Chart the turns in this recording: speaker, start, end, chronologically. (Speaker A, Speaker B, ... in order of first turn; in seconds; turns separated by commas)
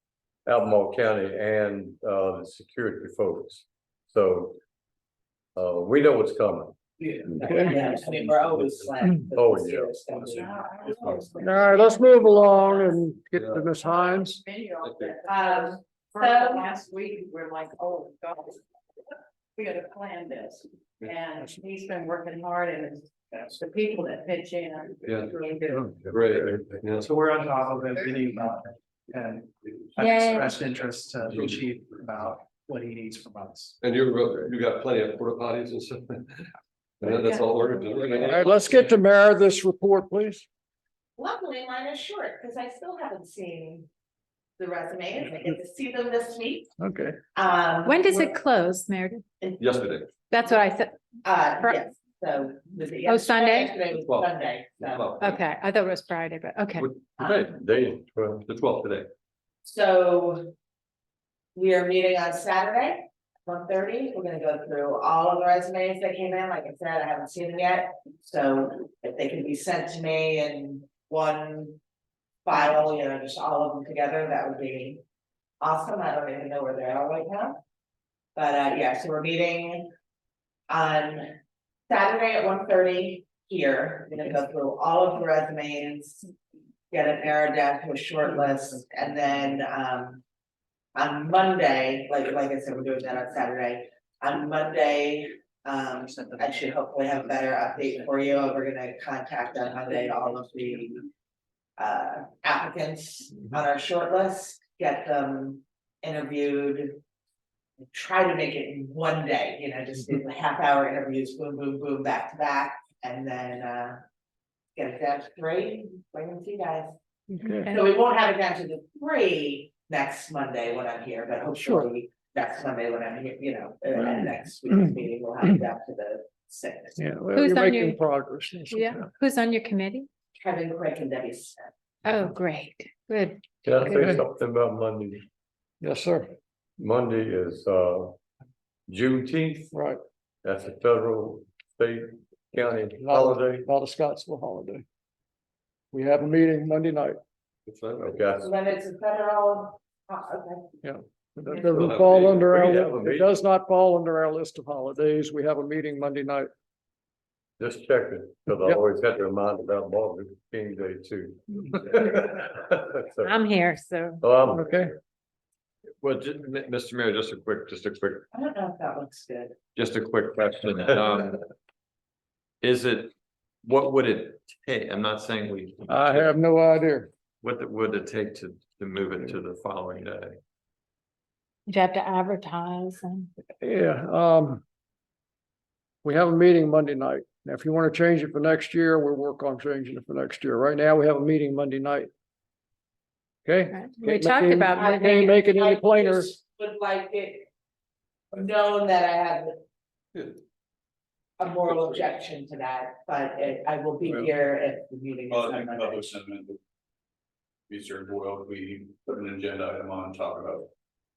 Speaker A: 0.5-4.6, Speaker A: 5.6-6.7, Speaker B: 7.0-11.0, Speaker C: 7.3-7.8, Speaker A: 8.5-9.9, Speaker D: 10.1-11.5, Speaker E: 10.9-12.9, Speaker C: 11.4-14.4, Speaker F: 13.3-13.7, Speaker E: 13.8-18.6, Speaker F: 14.8-15.2, Speaker B: 15.3-16.7, Speaker E: 19.6-25.0, Speaker F: 25.0-25.3, Speaker A: 25.9-26.8, Speaker F: 26.1-27.0, Speaker G: 27.0-33.8, Speaker H: 30.0-30.5, Speaker F: 33.8-36.4, Speaker F: 37.0-38.7, Speaker C: 38.1-40.5, Speaker B: 41.2-43.9, Speaker B: 44.6-46.7, Speaker C: 46.8-47.2, Speaker B: 47.3-48.3, Speaker H: 47.8-49.2, Speaker B: 49.4-49.9, Speaker F: 49.6-50.1, Speaker H: 50.3-50.9, Speaker B: 51.2-55.2, Speaker H: 51.6-51.9, Speaker H: 53.0-53.8, Speaker F: 54.0-55.4, Speaker H: 55.2-56.9, Speaker F: 56.8-57.5, Speaker B: 57.2-57.5, Speaker A: 57.5-58.4, Speaker F: 58.4-59.1, Speaker B: 59.6-60.5, Speaker B: 61.5-71.8, Speaker B: 72.5-75.0, Speaker B: 75.6-77.6, Speaker B: 78.4-79.9, Speaker B: 80.7-81.3, Speaker B: 81.9-86.3, Speaker B: 86.9-90.2, Speaker B: 91.0-101.1, Speaker B: 101.8-107.0, Speaker B: 107.9-114.0, Speaker B: 114.8-117.0, Speaker C: 117.4-117.7, Speaker B: 117.7-127.0, Speaker C: 127.0-129.1, Speaker H: 127.3-128.0, Speaker H: 128.7-130.1, Speaker B: 130.4-131.7, Speaker H: 132.1-134.2, Speaker A: 133.7-135.2, Speaker C: 133.9-134.2, Speaker C: 135.8-136.3, Speaker A: 136.8-138.2, Speaker A: 138.9-139.7, Speaker C: 139.7-140.0, Speaker A: 140.4-143.7, Speaker C: 143.0-144.8, Speaker C: 145.9-147.2, Speaker F: 147.7-148.2, Speaker A: 148.0-148.5, Speaker B: 148.4-150.7, Speaker C: 150.8-156.5, Speaker B: 151.5-152.0, Speaker F: 151.8-152.4, Speaker A: 152.2-153.3, Speaker A: 157.6-163.3, Speaker H: 163.2-164.2, Speaker A: 164.2-164.8, Speaker C: 164.5-164.9, Speaker F: 166.0-168.3, Speaker B: 168.3-169.6, Speaker F: 169.8-171.4, Speaker F: 172.6-173.1, Speaker F: 173.6-176.3, Speaker C: 175.9-177.1, Speaker F: 177.4-180.4, Speaker H: 181.7-183.3, Speaker C: 183.6-184.6, Speaker C: 186.0-192.1, Speaker C: 193.4-196.3, Speaker H: 193.7-195.4, Speaker B: 194.8-197.5, Speaker B: 198.3-199.6, Speaker B: 201.4-206.1, Speaker D: 205.3-206.6, Speaker D: 207.7-210.7